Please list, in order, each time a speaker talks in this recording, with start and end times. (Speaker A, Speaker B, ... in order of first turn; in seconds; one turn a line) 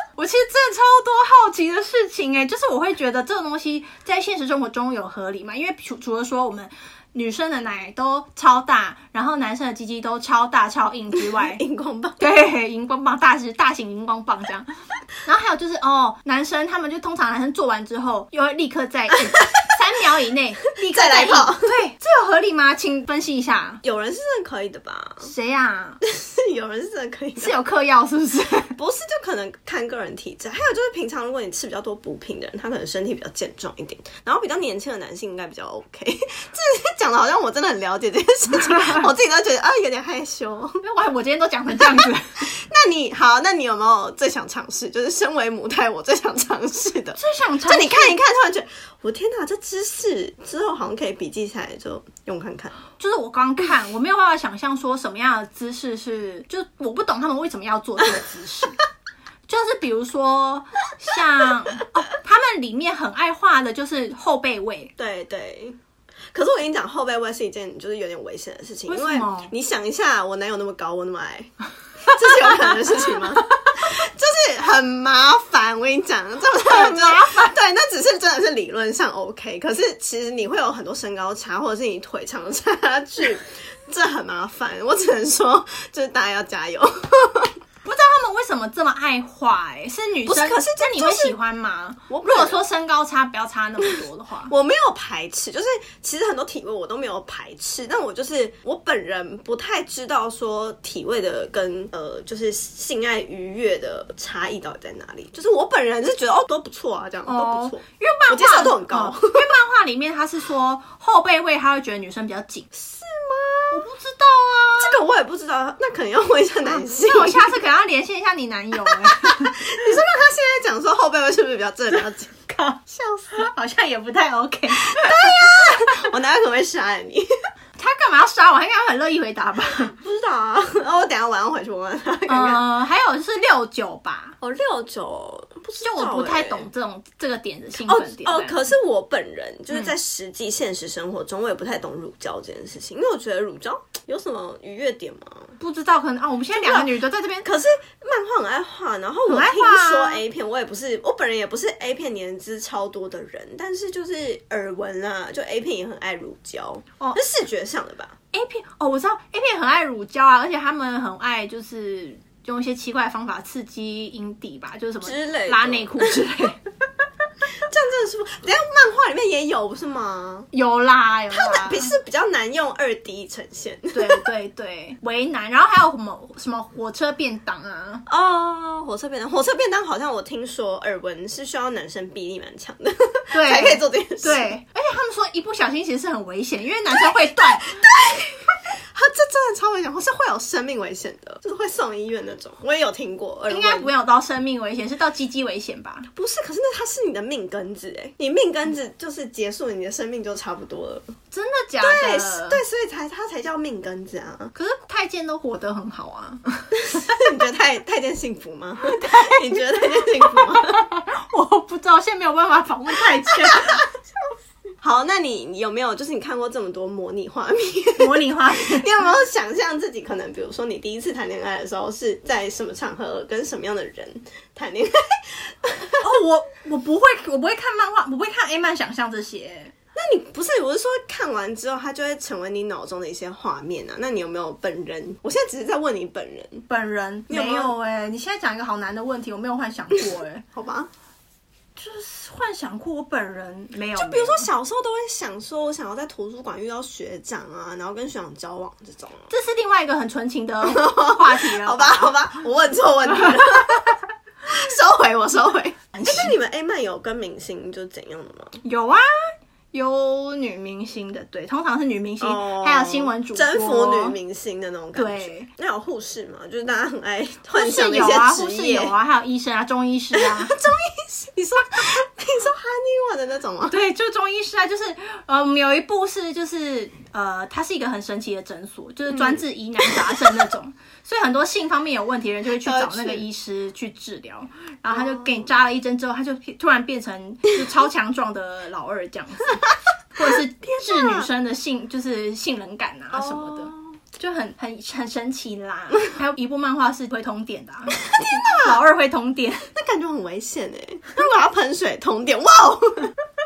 Speaker A: 0.1-11.6
Speaker B: 11.2-12.2
Speaker A: 12.2-14.7
Speaker A: 15.2-23.8
Speaker B: 20.9-21.8
Speaker B: 23.8-25.3
Speaker A: 25.2-26.0
Speaker B: 26.0-27.6
Speaker A: 27.4-28.8
Speaker B: 28.8-40.8
Speaker A: 38.5-39.1
Speaker A: 40.8-42.5
Speaker B: 41.8-52.7
Speaker A: 47.2-48.1
Speaker A: 53.0-58.8
Speaker A: 59.5-64.9
Speaker B: 65.0-65.8
Speaker B: 66.3-87.5
Speaker A: 68.9-69.5
Speaker A: 76.6-77.5
Speaker A: 87.8-94.5
Speaker B: 90.2-91.3
Speaker B: 92.1-92.6
Speaker B: 94.5-109.5
Speaker A: 107.2-112.7
Speaker B: 112.7-113.8
Speaker A: 113.7-115.0
Speaker B: 114.8-117.5
Speaker A: 116.6-119.6
Speaker B: 118.8-123.4
Speaker A: 122.5-122.8
Speaker A: 123.3-126.1
Speaker B: 124.7-127.3
Speaker A: 127.8-129.9
Speaker B: 129.8-132.6
Speaker A: 132.3-134.3
Speaker B: 134.4-136.7
Speaker A: 135.8-138.6
Speaker B: 137.8-145.5
Speaker A: 145.6-147.5
Speaker B: 146.5-158.1
Speaker A: 149.3-150.2
Speaker A: 158.3-166.6
Speaker B: 165.0-166.2
Speaker B: 167.5-170.5
Speaker A: 170.5-171.9
Speaker B: 171.3-174.2
Speaker A: 173.9-178.0
Speaker B: 178.1-184.6
Speaker A: 183.3-187.8
Speaker B: 186.9-193.9
Speaker A: 193.5-196.1
Speaker B: 196.1-201.1
Speaker A: 201.3-202.6
Speaker B: 201.8-204.5
Speaker A: 204.5-207.2
Speaker B: 206.7-210.8
Speaker A: 208.8-213.8
Speaker B: 213.3-213.8
Speaker B: 214.8-226.1
Speaker A: 218.0-219.0
Speaker A: 226.0-229.7
Speaker B: 229.9-236.6
Speaker A: 236.7-240.4
Speaker B: 237.3-237.7
Speaker B: 240.5-240.9
Speaker A: 241.8-244.5
Speaker B: 243.9-249.3
Speaker A: 249.3-252.2
Speaker B: 250.6-258.6
Speaker A: 255.9-256.3
Speaker A: 258.6-264.1
Speaker B: 262.2-268.9
Speaker A: 264.9-265.5
Speaker A: 267.5-270.6
Speaker B: 270.1-273.8
Speaker A: 273.7-299.7
Speaker B: 279.1-279.4
Speaker B: 282.6-283.2
Speaker B: 284.9-285.4
Speaker B: 290.2-291.3
Speaker B: 293.1-294.0
Speaker B: 298.0-298.8
Speaker B: 299.7-303.1